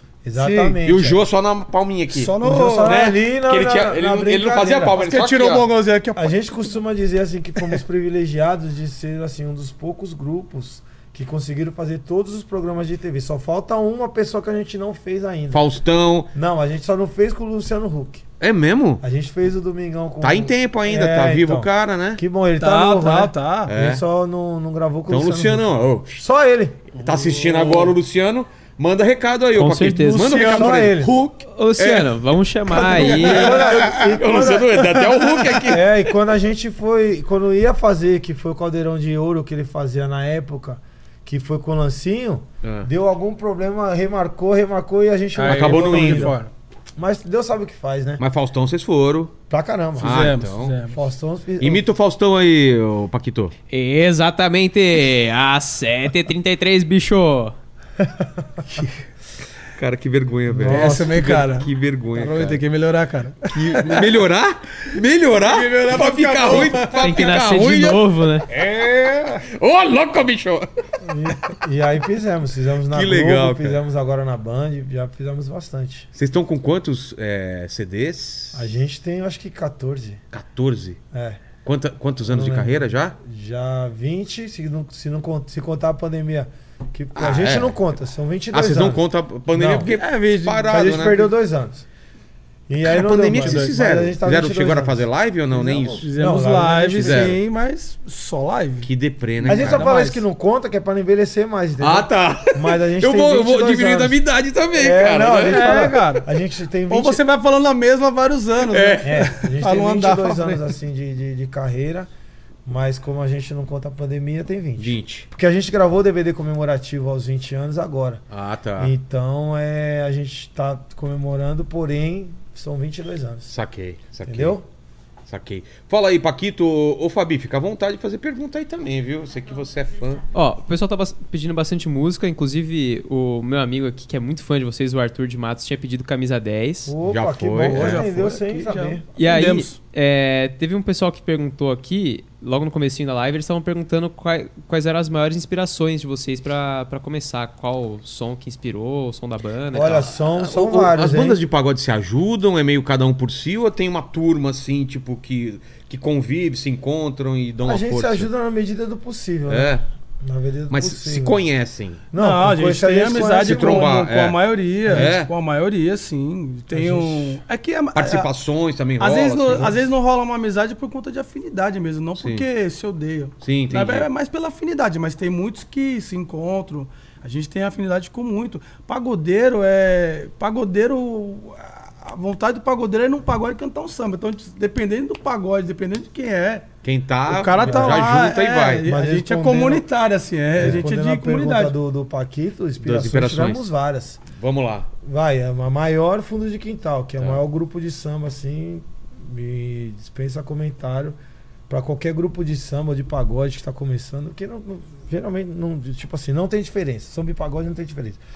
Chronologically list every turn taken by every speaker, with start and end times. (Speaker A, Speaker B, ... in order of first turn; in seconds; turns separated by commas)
Speaker A: 0.2-1.2, Speaker B: 0.3-0.8, Speaker C: 0.8-5.7, Speaker B: 2.1-3.0, Speaker A: 2.4-5.0, Speaker B: 5.0-6.7, Speaker A: 6.2-15.6, Speaker C: 15.5-16.3, Speaker A: 16.3-18.2, Speaker C: 18.4-19.0, Speaker A: 19.0-26.9, Speaker C: 20.2-22.2, Speaker B: 22.6-23.7, Speaker C: 23.7-24.0, Speaker C: 25.1-26.2, Speaker B: 26.9-27.9, Speaker C: 27.0-30.9, Speaker D: 29.6-30.5, Speaker B: 30.1-31.5, Speaker A: 30.4-31.2, Speaker D: 31.5-33.6, Speaker C: 31.8-35.9, Speaker B: 32.7-35.7, Speaker A: 33.0-35.0, Speaker A: 35.6-46.4, Speaker C: 42.6-42.9, Speaker B: 45.4-46.5, Speaker C: 45.5-46.4, Speaker A: 47.0-48.2, Speaker C: 48.2-49.4, Speaker A: 49.5-50.3, Speaker C: 50.0-50.8, Speaker B: 50.0-51.0, Speaker A: 50.9-51.8, Speaker C: 51.6-53.5, Speaker D: 53.7-57.6, Speaker A: 58.0-58.6, Speaker C: 59.7-62.6, Speaker A: 60.5-61.4, Speaker B: 60.6-64.2, Speaker A: 63.5-64.0, Speaker C: 63.8-70.7, Speaker B: 65.3-67.2, Speaker D: 66.8-68.5, Speaker A: 71.0-76.1, Speaker C: 72.9-73.8, Speaker C: 76.2-78.7, Speaker A: 78.5-80.2, Speaker C: 80.3-81.0, Speaker A: 81.1-81.4, Speaker C: 81.6-83.2, Speaker A: 82.2-89.9, Speaker C: 87.2-87.8, Speaker C: 88.5-91.3, Speaker B: 89.9-90.9, Speaker A: 90.6-91.8, Speaker A: 92.7-97.4, Speaker C: 92.8-96.0, Speaker B: 93.3-93.8, Speaker B: 96.0-98.9, Speaker C: 97.0-97.4, Speaker C: 98.8-99.9, Speaker B: 99.4-100.2, Speaker A: 99.5-104.2, Speaker C: 101.8-106.0, Speaker A: 104.7-107.2, Speaker B: 105.4-106.3, Speaker B: 106.9-110.7, Speaker C: 108.7-109.2, Speaker A: 109.0-112.1, Speaker A: 112.7-118.2, Speaker C: 114.8-115.3, Speaker C: 118.3-118.9, Speaker A: 118.8-123.5, Speaker C: 123.5-124.6, Speaker A: 124.3-124.6, Speaker C: 125.3-130.3, Speaker D: 130.3-136.9, Speaker A: 136.9-139.1, Speaker C: 137.1-138.1, Speaker B: 137.7-139.8, Speaker D: 139.2-150.1, Speaker A: 149.7-151.4, Speaker C: 150.3-158.3, Speaker A: 157.6-161.4, Speaker C: 159.5-159.8, Speaker C: 160.7-162.0, Speaker A: 162.1-163.9, Speaker B: 162.2-168.3, Speaker C: 163.2-165.3, Speaker A: 164.9-165.1, Speaker A: 166.7-167.4, Speaker C: 167.9-169.7, Speaker B: 169.0-186.7, Speaker C: 172.2-172.4, Speaker C: 173.4-174.1, Speaker C: 186.8-188.9, Speaker B: 187.3-191.8, Speaker A: 187.7-188.0, Speaker A: 188.8-189.9, Speaker A: 190.6-194.2, Speaker C: 192.8-193.7, Speaker C: 194.3-194.9, Speaker A: 195.0-201.2, Speaker A: 201.7-208.2